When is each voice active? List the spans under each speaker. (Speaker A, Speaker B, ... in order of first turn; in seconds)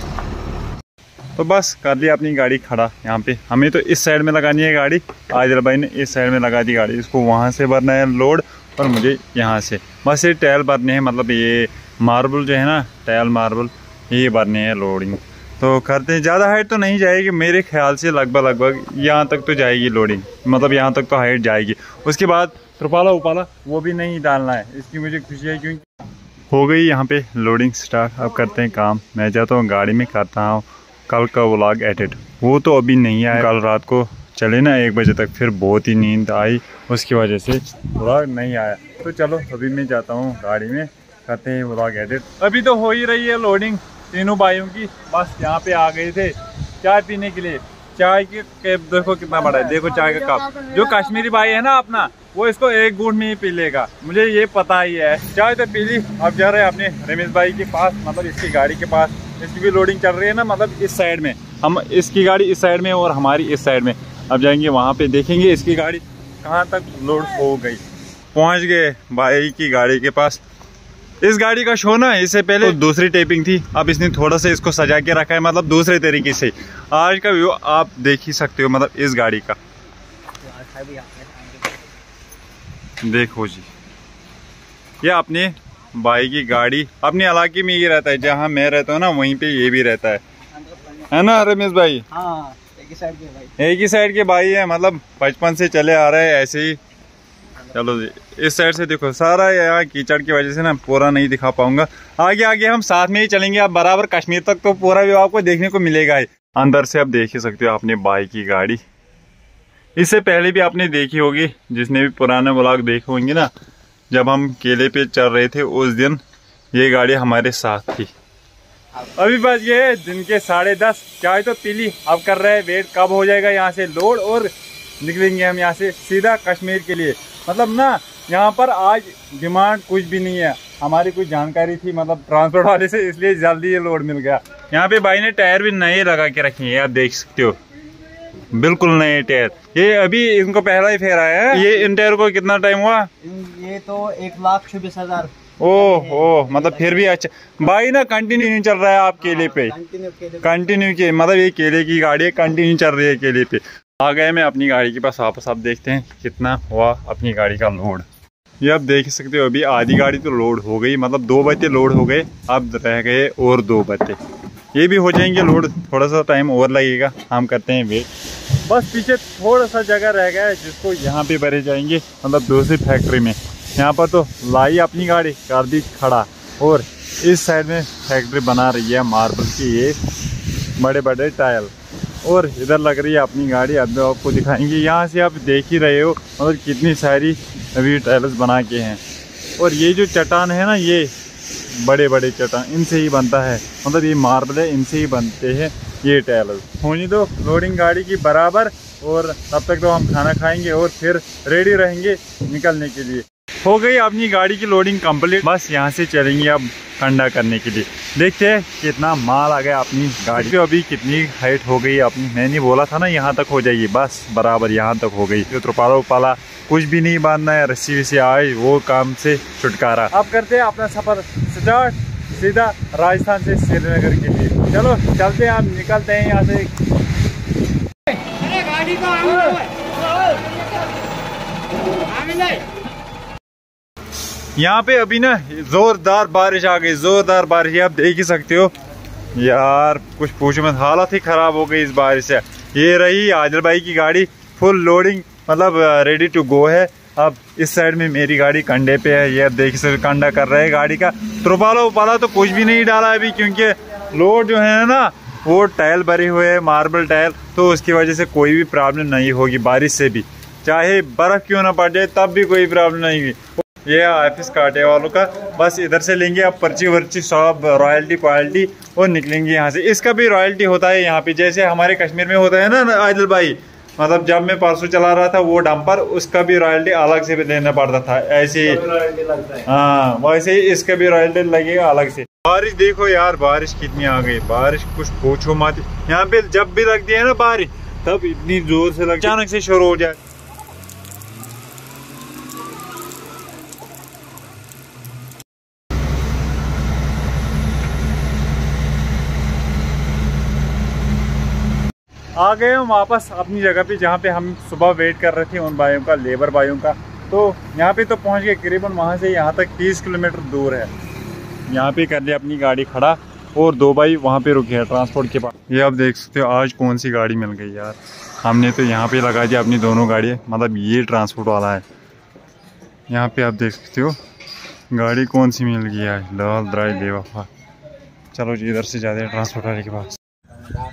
Speaker A: 1.4-25.8, 26.5-67.8, 68.3-70.4, 71.2-79.6, 83.0-83.7, 85.0-90.2, 91.1-92.0, 93.6-96.8, 97.7-108.8, 110.0-113.5, 114.1-116.2, 116.7-118.1, 119.0-137.6, 138.5-143.1, 145.6-149.8, 150.4-158.0, 158.6-164.2, 164.7-180.0, 180.8-181.7, 182.2-189.0, 189.6-191.1, 191.7-226.8, 228.5-229.7, 234.6-238.7, 239.3-290.2, 302.4-310.9, 311.7-321.8, 323.1-324.2, 324.9-327.5, 328.3-330.2
Speaker B: 49.5-50.7, 80.4-81.8, 90.6-91.1, 92.1-93.5, 143.2-147.0, 149.3-150.6